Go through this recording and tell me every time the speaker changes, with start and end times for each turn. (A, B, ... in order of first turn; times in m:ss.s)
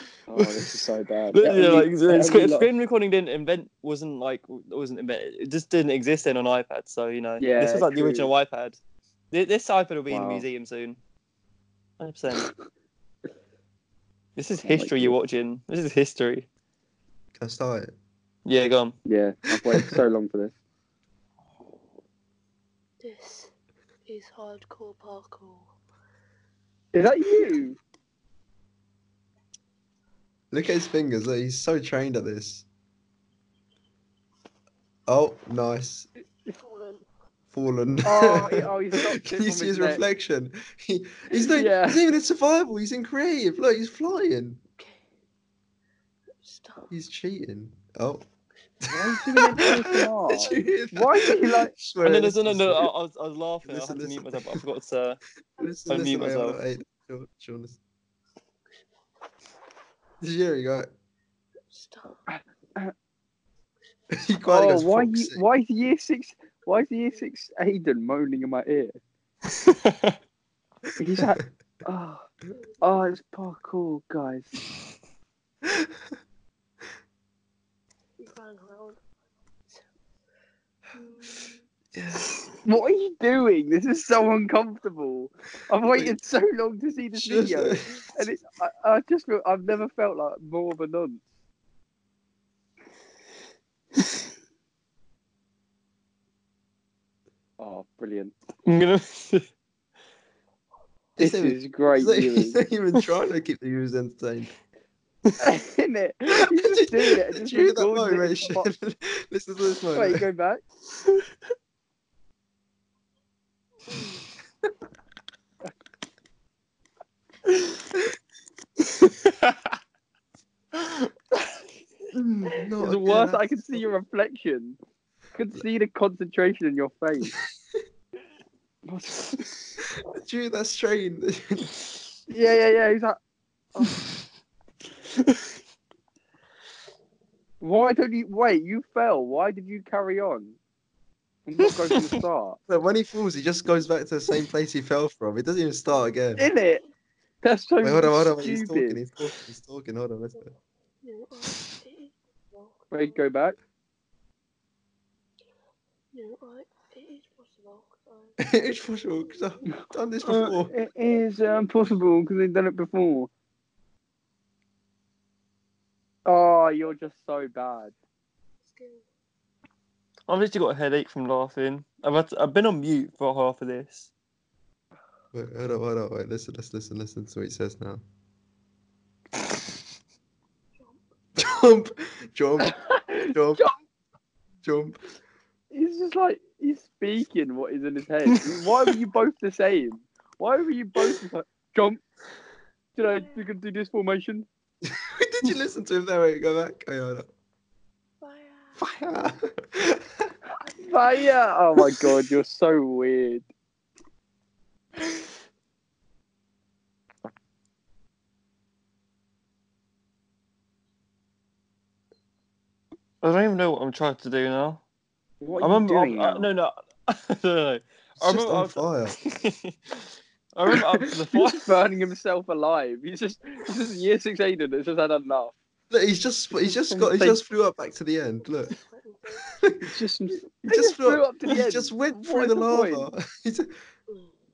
0:00.3-0:02.7 A
0:00.3-0:00.7 B
0:01.3-0:08.8 B
0:07.4-0:08.3 A
0:09.3-0:11.0 B
0:10.1-0:10.4 A
0:12.0-0:12.5 B
0:14.4-0:16.5 B
0:14.6-0:15.2 A
0:17.4-0:17.9 C
0:18.4-0:18.9 B
0:19.0-0:20.5 A
0:23.0-0:23.5 D
0:24.1-0:25.7 D
0:26.9-0:27.8 A
0:30.5-0:32.6 C
0:35.1-0:36.1 C
0:36.5-0:37.0 D
0:37.5-0:44.6 C
0:38.0-0:40.0 A
0:41.5-0:42.0 A
0:44.8-0:45.0 D
0:46.4-0:46.9 D
0:46.9-0:48.2 C
0:48.9-0:51.7 A
0:49.0-0:52.9 C
0:52.0-0:55.2 B
0:53.6-0:54.6 C
0:55.6-0:57.8 C
0:55.9-0:56.6 B
1:00.2-1:00.9 C
1:01.7-1:02.2 D
1:02.3-1:02.9 A
1:04.1-1:05.4 C
1:04.5-1:09.0 A
1:09.5-1:10.1 B
1:11.0-1:12.3 A
1:12.8-1:14.6 A
1:18.2-1:19.0 D
1:20.9-1:21.6 D
1:21.9-1:22.3 C
1:22.6-1:31.2 A
1:27.1-1:28.0 C
1:37.6-1:38.3 A
1:38.6-1:39.5 B
1:41.2-1:42.6 A
1:41.2-1:44.5 C
1:45.4-1:48.7 A
1:46.6-1:50.2 C
1:49.9-1:50.6 A
1:59.0-1:59.6 B
2:02.1-2:03.8 C
2:02.8-2:04.8 A
2:05.3-2:07.3 A
2:08.8-2:09.5 A
2:10.0-2:11.7 C
2:12.3-2:13.2 A
2:13.8-2:14.0 A
2:17.6-2:20.6 A
2:21.4-2:22.6 A
2:22.7-2:26.4 C
2:25.9-2:26.6 D
2:26.4-2:26.8 A
2:27.4-2:29.0 A
2:27.8-2:30.5 C
2:31.0-2:33.2 D
2:32.9-2:33.6 A
2:36.1-2:38.4 D
2:38.4-2:40.7 C
2:39.2-2:39.6 D
2:40.2-2:43.3 A
2:46.2-2:47.9 A
2:48.6-2:49.0 D
2:50.3-2:54.1 B
2:55.3-2:58.0 C
3:01.4-3:02.8 C
3:02.6-3:03.7 A
3:03.3-3:03.6 C
3:04.6-3:05.0 C
3:05.7-3:12.0 A
3:13.0-3:14.4 A
3:14.8-3:17.3 C
3:18.2-3:18.8 D
3:18.8-3:20.3 C
3:20.8-3:23.4 A
3:33.2-3:34.8 B
3:35.4-3:36.5 A
3:35.6-3:41.7 B
3:38.2-3:39.2 C
3:41.3-3:45.5 A
3:45.9-3:48.7 C
3:46.6-3:47.4 A
3:48.4-3:49.5 D
3:49.6-3:49.9 C
3:49.8-3:53.1 A
3:50.6-3:53.7 C
3:54.1-3:54.3 D